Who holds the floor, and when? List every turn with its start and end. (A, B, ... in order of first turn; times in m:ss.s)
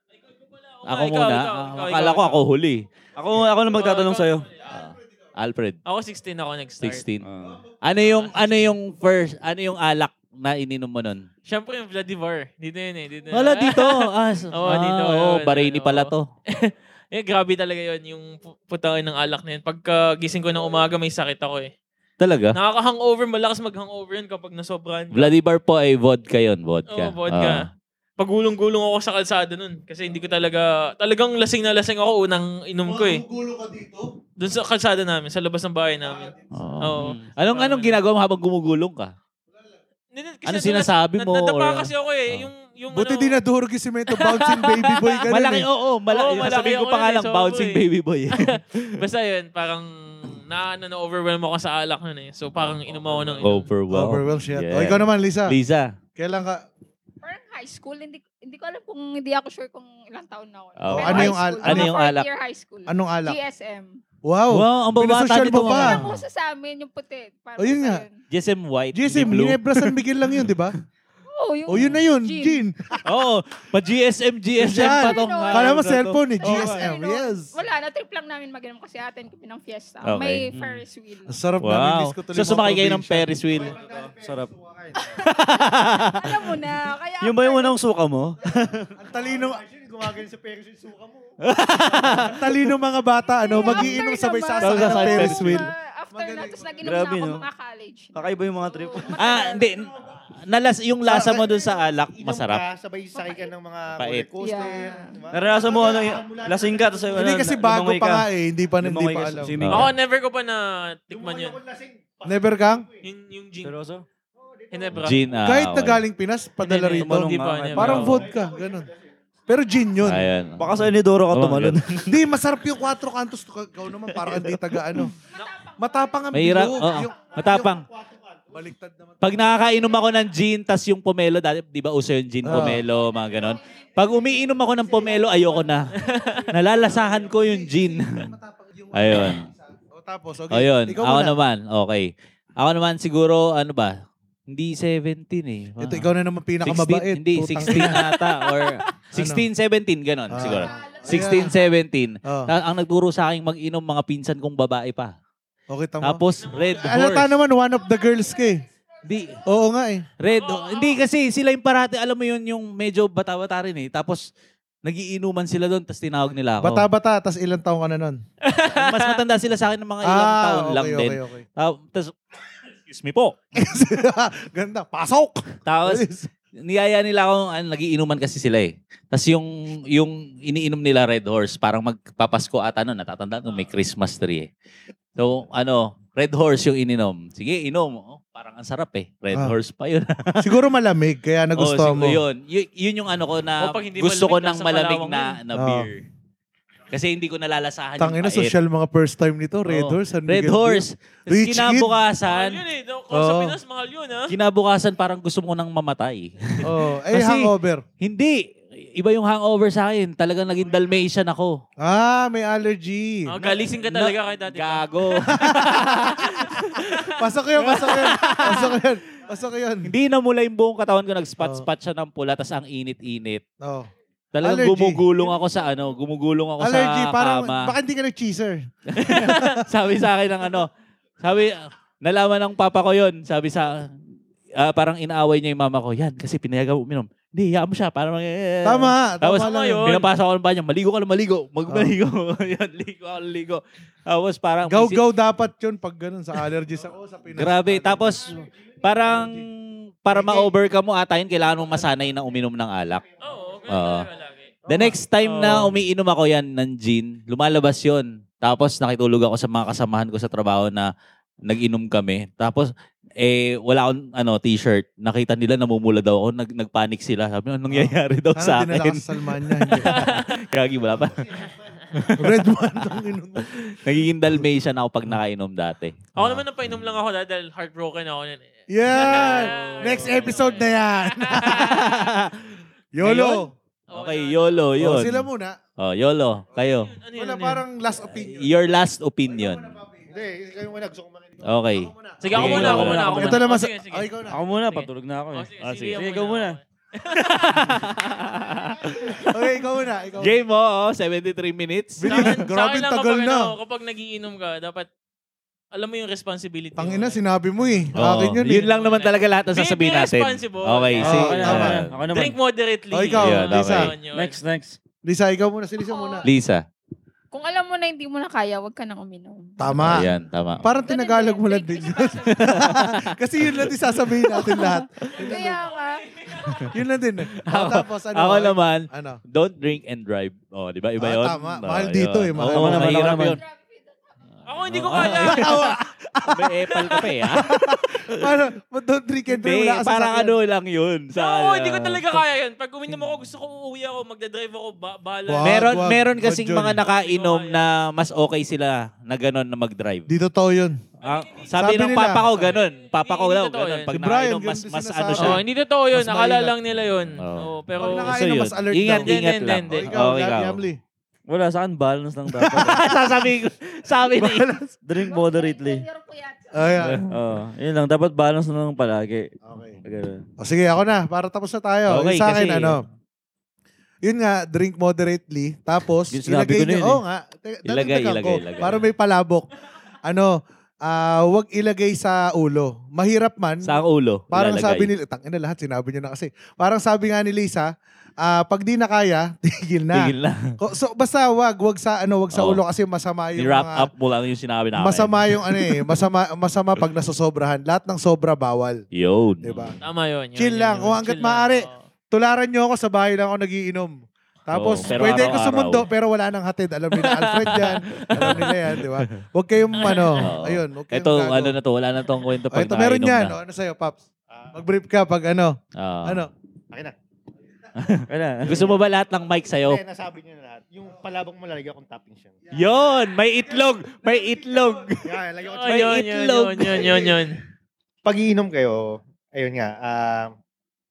0:00.3-0:02.4 A
0:00.8-0:02.9 B
0:03.2-0:04.4 C
0:03.7-0:04.4 A
0:04.7-0:05.8 B
0:05.9-0:07.0 A
0:06.8-0:07.2 B
0:07.2-0:07.6 C
0:07.8-0:11.2 B
0:11.4-0:21.7 A
0:13.3-0:16.3 B
0:22.2-0:22.6 B
0:22.6-0:25.3 A
0:25.1-0:27.7 B
0:26.9-0:27.7 A
0:28.2-0:33.2 A
0:32.8-0:34.1 D
0:34.4-0:38.0 A
0:36.5-0:39.1 B
0:40.1-0:43.4 A
0:40.4-0:42.5 B
0:42.9-0:45.7 D
0:44.1-0:45.2 A
0:45.3-0:49.0 B
0:46.1-0:53.7 A
0:53.0-0:53.4 C
0:53.4-0:55.9 B
0:53.9-0:55.6 D
0:56.2-0:56.7 D
0:57.2-1:04.0 E
1:00.8-1:02.2 B
1:00.9-1:01.9 D
1:02.9-1:03.4 D
1:04.2-1:06.1 D
1:04.5-1:06.1 B
1:05.5-1:08.2 E
1:07.6-1:08.0 D
1:08.3-1:09.9 B
1:08.9-1:10.7 D
1:11.3-1:12.6 E
1:11.7-1:13.0 D
1:13.0-1:16.8 B
1:14.6-1:17.5 D
1:14.8-1:15.8 E
1:16.4-1:21.4 E
1:20.0-1:20.4 B
1:20.5-1:20.8 C
1:21.3-1:23.3 D
1:21.6-1:23.8 B
1:23.4-1:25.4 F
1:23.8-1:24.5 C
1:25.1-1:26.4 B
1:26.0-1:27.8 E
1:27.2-1:28.9 C
1:28.9-1:29.6 D
1:29.0-1:32.4 F
1:31.4-1:32.7 B
1:32.1-1:36.6 D
1:33.4-1:39.7 E
1:34.6-1:35.6 B
1:36.8-1:37.4 C
1:38.1-1:39.1 C
1:39.2-1:42.6 B
1:41.0-1:41.5 D
1:42.1-1:47.5 F
1:43.1-1:43.5 E
1:43.9-1:44.3 B
1:44.4-1:45.2 E
1:45.3-1:48.3 C
1:47.2-1:49.6 D
1:48.8-1:49.9 C
1:49.6-1:49.9 B
1:49.7-1:51.6 A
1:51.1-1:53.1 F
1:52.2-1:52.8 D
1:53.0-1:53.7 A
1:53.6-1:54.0 C
1:54.4-1:55.5 F
1:54.7-1:55.2 A
1:54.9-1:56.0 B
1:55.4-1:58.9 D
1:56.6-1:58.2 A
1:57.0-1:58.2 C
1:57.9-1:59.2 F
1:59.5-2:00.3 D
2:00.0-2:02.0 B
2:00.6-2:02.1 C
2:02.1-2:05.1 D
2:05.4-2:06.2 E
2:05.8-2:07.8 D
2:06.3-2:07.8 B
2:07.1-2:08.6 F
2:08.5-2:09.5 D
2:09.2-2:16.0 B
2:12.4-2:12.8 D
2:13.2-2:13.4 E
2:14.3-2:14.6 E
2:14.7-2:17.5 F
2:15.2-2:15.7 D
2:16.0-2:16.4 A
2:16.5-2:18.3 B
2:16.6-2:21.4 D
2:18.9-2:19.5 B
2:20.5-2:23.9 B
2:24.5-2:26.1 B
2:25.8-2:28.2 D
2:26.6-2:35.1 B
2:29.1-2:29.4 D
2:30.3-2:31.5 D
2:30.5-2:31.7 E
2:32.2-2:32.5 D
2:35.7-2:38.6 D
2:36.0-2:37.4 B
2:36.4-2:36.8 A
2:37.8-2:39.3 E
2:39.0-2:39.4 B
2:39.4-2:40.1 D
2:40.2-2:44.3 B
2:40.3-2:41.0 A
2:44.8-2:46.8 B
2:46.6-2:48.2 D
2:48.4-2:49.2 A
2:48.7-2:52.1 B
2:50.0-2:51.4 D
2:52.9-2:53.4 B
2:53.6-2:56.3 D
2:55.6-3:04.5 B
3:05.2-3:10.5 B
3:10.4-3:12.2 D
3:11.6-3:16.0 B
3:13.6-3:15.4 A
3:15.5-3:15.9 D
3:16.9-3:18.5 B
3:18.0-3:22.0 D
3:19.7-3:22.6 B
3:22.2-3:24.3 A
3:23.1-3:23.6 D
3:24.3-3:28.4 B
3:26.6-3:27.8 D
3:29.0-3:31.6 B
3:31.8-3:33.8 D
3:33.3-3:35.3 A
3:34.0-3:36.9 B
3:35.3-3:39.9 D
3:37.6-3:38.8 B
3:39.8-3:43.4 B
3:41.4-3:41.6 D
3:43.6-3:43.9 D
3:44.3-3:47.7 B
3:44.4-3:45.0 D
3:46.6-3:49.6 D
3:48.9-3:50.7 B
3:51.2-3:53.9 B
3:54.6-4:05.0 B
3:58.6-4:00.0 D
3:59.3-4:00.1 A
4:01.7-4:01.9 D
4:04.6-4:08.4 D
4:07.3-4:13.1 B
4:08.3-4:08.9 F
4:09.0-4:09.4 D
4:10.1-4:10.5 D
4:11.4-4:14.1 F
4:13.2-4:14.5 A
4:13.7-4:14.1 B
4:14.6-4:20.9 B
4:14.7-4:15.0 D
4:15.2-4:15.7 A
4:21.4-4:31.2 B
4:27.7-4:30.1 D
4:29.8-4:30.3 A
4:30.9-4:32.1 F
4:31.9-4:32.3 B
4:32.1-4:33.8 D
4:33.4-4:36.4 B
4:36.2-4:41.9 A
4:38.7-4:41.9 D
4:41.5-4:45.3 B
4:43.0-4:43.5 D
4:43.9-4:44.7 A
4:44.8-4:45.6 D
4:45.8-4:47.0 B
4:46.9-4:47.6 A
4:47.1-4:50.2 D
4:48.1-4:49.8 B
4:50.1-4:51.6 F
4:51.4-4:53.5 B
4:51.7-4:54.4 D
4:52.2-4:58.0 A
4:52.4-4:53.2 C
4:54.3-4:56.6 C
4:55.6-4:56.0 B
4:57.1-4:59.5 B
4:58.5-4:59.2 F
4:59.1-5:00.4 D
5:00.2-5:02.4 B
5:02.0-5:03.6 D
5:02.0-5:04.9 A
5:05.7-5:07.2 A
5:06.8-5:08.7 D
5:07.9-5:11.9 B
5:08.6-5:14.4 A
5:11.0-5:11.7 D
5:11.1-5:12.4 C
5:12.9-5:13.9 D
5:13.1-5:13.9 B
5:14.1-5:14.8 C
5:15.0-5:16.3 D
5:15.8-5:16.3 E
5:16.2-5:16.6 B
5:17.3-5:19.6 E
5:19.6-5:20.1 D
5:19.7-5:20.6 B
5:20.6-5:25.5 D
5:20.6-5:22.8 E
5:22.4-5:23.7 B
5:24.3-5:26.1 E
5:25.1-5:26.7 A
5:26.7-5:29.2 D
5:27.3-5:33.4 B
5:31.0-5:32.9 D
5:32.5-5:33.4 C
5:33.1-5:34.5 E
5:34.4-5:35.8 A
5:34.7-5:35.7 B
5:35.2-5:40.4 D
5:36.3-5:38.3 B
5:39.4-5:42.2 B
5:41.2-5:45.7 A
5:45.3-5:46.8 D
5:45.4-5:50.1 B
5:46.8-5:47.7 A
5:50.1-5:50.8 D
5:51.0-5:51.5 A
5:51.0-5:55.4 B
5:51.5-5:52.5 D
5:52.3-5:54.0 A
5:53.9-5:56.6 D
5:55.1-5:58.2 A
5:57.2-6:00.6 B
5:57.8-5:59.1 D
5:58.9-5:59.9 A
5:59.7-6:00.8 D
6:01.3-6:02.8 C
6:02.4-6:02.8 D
6:02.7-6:04.5 B
6:04.2-6:04.7 D
6:04.8-6:05.8 C
6:05.0-6:07.0 E
6:06.5-6:07.0 D
6:06.8-6:07.1 B
6:07.1-6:09.3 C
6:09.4-6:09.8 D
6:09.8-6:10.2 C
6:10.4-6:12.8 D
6:11.9-6:12.8 B
6:14.0-6:19.5 D
6:16.1-6:17.0 C
6:17.7-6:18.9 B
6:20.0-6:23.8 D
6:23.6-6:24.9 B
6:24.3-6:33.9 D
6:29.9-6:30.6 B
6:32.3-6:32.6 B
6:33.4-6:35.8 B
6:34.8-6:38.8 D
6:38.9-6:39.7 B
6:39.4-6:39.7 D
6:39.8-6:41.8 A
6:40.4-6:44.0 D
6:44.5-6:51.6 D
6:44.5-6:45.9 B
6:44.9-6:45.3 A
6:47.0-6:48.5 A
6:47.6-6:49.2 B
6:49.8-6:50.3 A
6:49.9-6:53.4 B
6:52.5-6:56.3 D
6:54.3-6:54.6 F
6:55.8-6:56.2 B
6:57.7-6:59.8 B
6:58.1-6:58.7 C
6:58.5-6:58.8 F
6:59.5-7:02.5 F
7:02.5-7:07.0 B
7:02.8-7:04.9 D
7:05.0-7:06.1 F
7:05.5-7:07.4 A
7:06.6-7:07.3 F
7:08.0-7:10.3 F